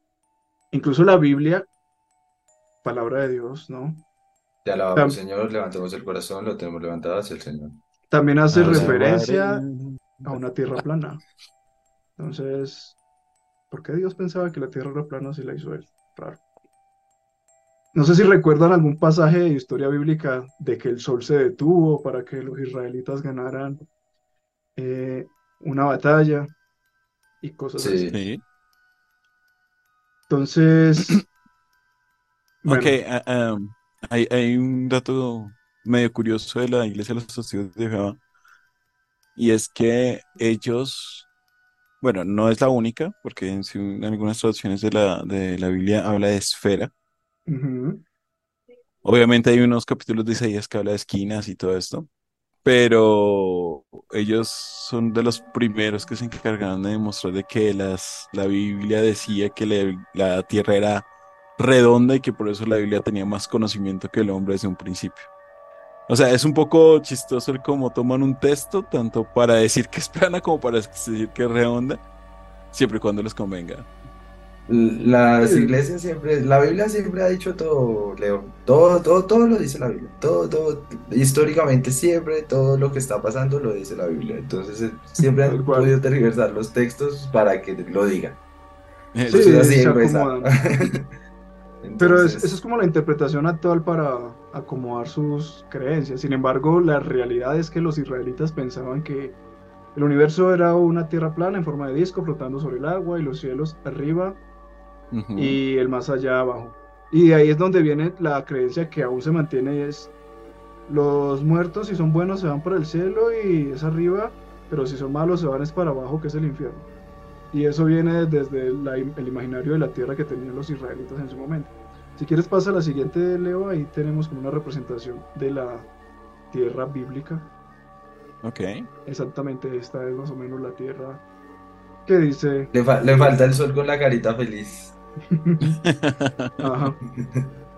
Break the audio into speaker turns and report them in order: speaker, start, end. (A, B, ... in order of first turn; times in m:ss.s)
0:00.7-0:01.7 A
0:02.8-0:04.0 A
0:04.6-0:07.8 B
0:08.1-0:09.6 A
0:08.5-0:10.3 C
0:08.7-0:09.0 B
0:10.3-0:11.2 A
0:12.2-0:13.0 A
0:13.7-0:16.4 A
0:17.9-0:23.8 A
0:24.8-0:26.5 A
0:27.4-0:28.1 A
0:27.8-0:28.2 B
0:28.1-0:28.4 C
0:30.3-0:31.2 A
0:32.6-0:33.0 A
0:32.6-0:38.2 C
0:39.4-0:41.3 C
0:42.0-0:46.9 C
0:47.5-0:48.0 A
0:49.0-0:52.1 C
0:52.6-1:01.1 C
1:01.6-1:05.3 C
1:06.1-1:12.0 C
1:12.7-1:13.9 C
1:14.7-1:28.4 B
1:15.4-1:15.7 A
1:25.3-1:25.9 A
1:29.1-1:29.5 C
1:29.3-1:30.5 A
1:29.3-1:31.0 B
1:31.8-1:32.6 B
1:32.0-1:39.4 A
1:39.9-1:44.4 A
1:45.1-1:45.6 C
1:45.4-1:50.1 A
1:50.9-1:56.9 A
1:57.5-2:05.9 A
2:06.5-2:07.5 A
2:08.4-2:08.9 C
2:09.1-2:11.2 A
2:12.1-2:12.7 A
2:12.7-2:14.9 B
2:15.3-2:15.8 A
2:15.6-2:16.7 C
2:16.6-2:17.0 A